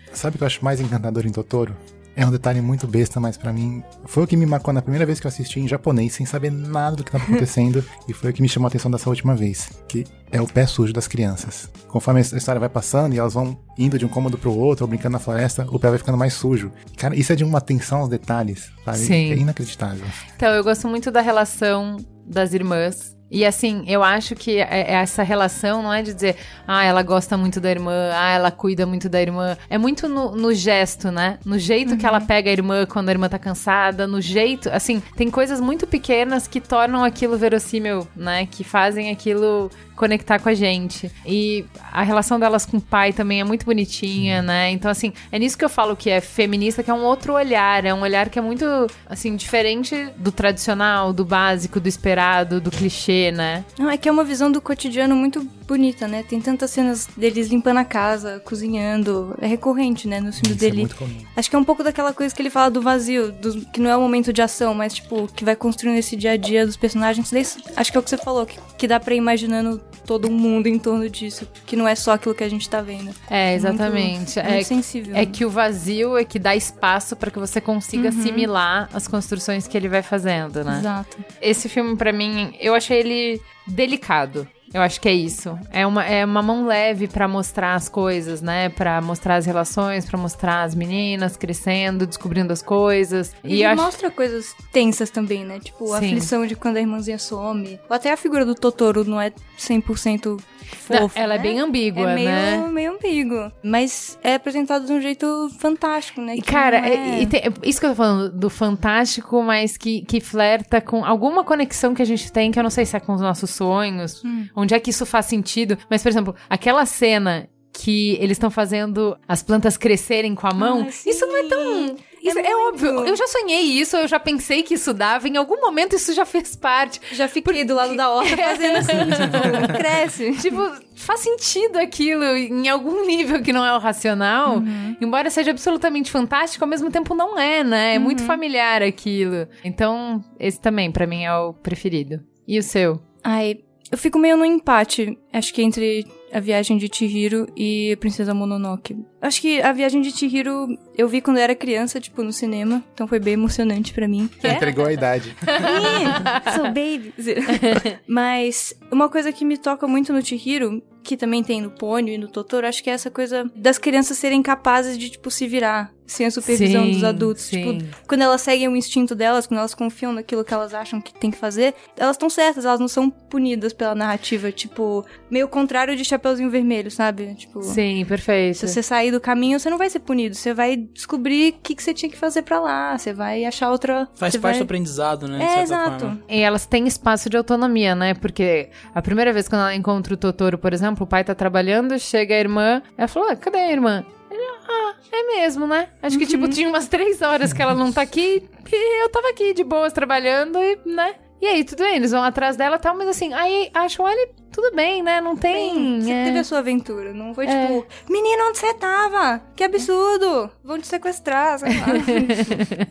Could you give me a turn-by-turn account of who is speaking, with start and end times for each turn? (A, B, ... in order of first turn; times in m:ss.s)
0:00.1-0:20.2 A
0:19.0-0:19.4 B
0:20.4-0:53.7 B
0:31.9-0:32.3 C
0:53.8-1:15.4 C
1:00.4-1:01.3 A
1:13.3-1:20.9 B
1:18.0-1:18.5 C
1:20.7-1:21.3 C
1:21.4-1:33.9 B
1:33.5-1:47.3 C
1:35.9-1:36.3 B
1:40.9-1:42.7 B
1:46.4-2:09.8 B
1:54.2-1:54.5 C
2:00.6-2:03.2 C
2:07.1-2:10.6 C
2:10.4-2:23.0 B
2:14.5-2:15.0 C
2:17.9-2:18.4 C
2:23.2-2:34.7 C
2:34.4-2:36.0 A
2:35.6-2:57.8 C
2:46.5-2:47.9 B
2:57.6-2:58.8 B
2:58.6-3:04.7 C
3:04.2-3:06.2 D
3:05.4-3:06.2 C
3:06.3-3:26.5 B
3:16.1-3:16.6 C
3:25.5-3:32.6 C
3:27.4-3:27.8 B